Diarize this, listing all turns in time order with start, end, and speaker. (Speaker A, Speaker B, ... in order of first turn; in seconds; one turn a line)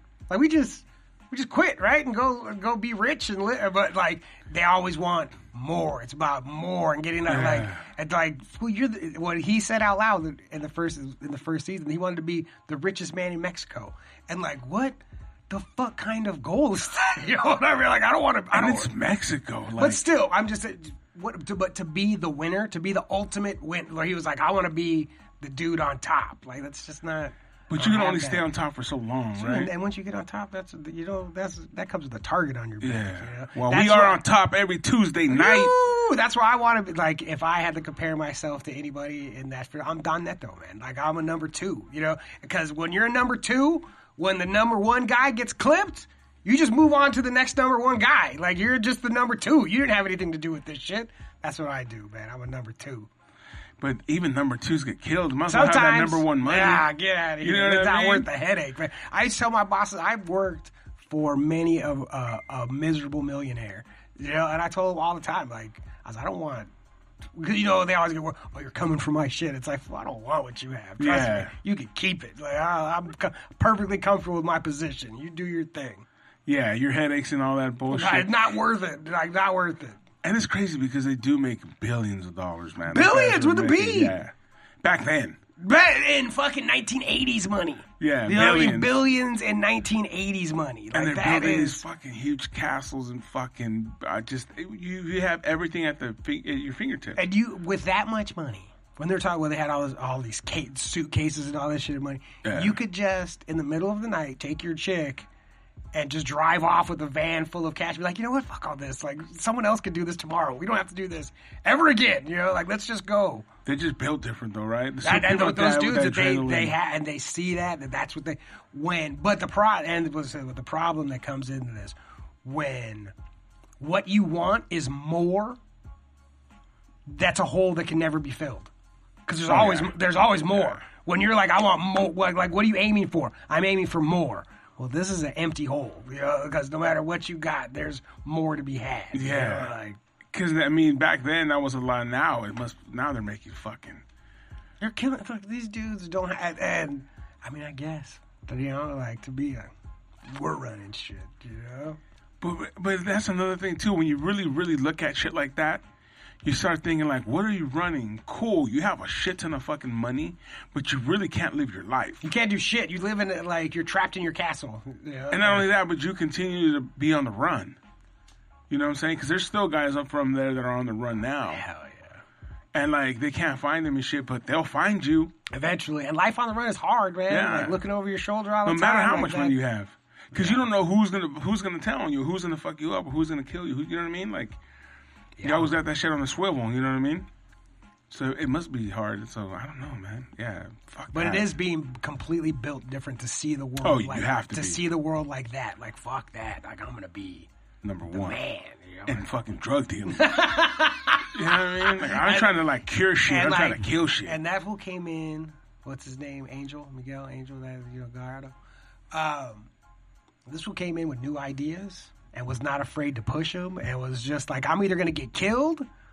Speaker A: 0.3-15.0
Speaker B: 7.3-7.8
Speaker A: 15.5-18.9
Speaker B: 18.5-20.0
Speaker A: 19.8-28.5
Speaker B: 27.7-29.7
Speaker A: 29.4-34.2
Speaker B: 32.8-35.7
Speaker A: 35.3-53.1
Speaker B: 53.8-56.9
Speaker A: 55.5-66.7
Speaker B: 57.4-58.3
Speaker A: 67.3-76.1
Speaker B: 71.0-71.5
Speaker B: 76.5-78.3
Speaker A: 77.9-80.0
Speaker B: 80.2-85.4
Speaker A: 82.9-84.2
Speaker A: 85.6-91.8
Speaker B: 88.0-89.0
Speaker B: 90.9-97.2
Speaker A: 97.2-105.3
Speaker B: 102.4-102.8
Speaker A: 105.9-113.5
Speaker B: 113.7-116.8
Speaker A: 115.0-123.1
Speaker A: 123.8-125.6
Speaker A: 127.1-128.7
Speaker A: 129.3-140.0
Speaker B: 129.5-129.9
Speaker B: 130.5-130.8
Speaker B: 139.1-139.7
Speaker B: 140.3-144.0
Speaker A: 144.8-149.7
Speaker A: 150.3-152.0
Speaker B: 152.4-155.8
Speaker B: 156.4-162.2
Speaker A: 162.2-165.7
Speaker B: 165.3-167.8
Speaker B: 168.7-171.6
Speaker A: 171.5-172.2
Speaker B: 172.7-175.3
Speaker A: 175.5-179.6
Speaker B: 177.3-177.8
Speaker B: 178.6-184.6
Speaker A: 180.3-180.7
Speaker A: 185.4-185.8
Speaker B: 185.4-187.3
Speaker B: 188.1-191.5
Speaker A: 191.1-197.5
Speaker B: 193.8-194.8
Speaker B: 197.8-198.4
Speaker A: 198.1-199.3
Speaker B: 199.1-200.3
Speaker A: 200.1-202.6
Speaker B: 201.3-204.4
Speaker A: 203.2-208.5
Speaker A: 209.1-209.7
Speaker A: 210.5-215.9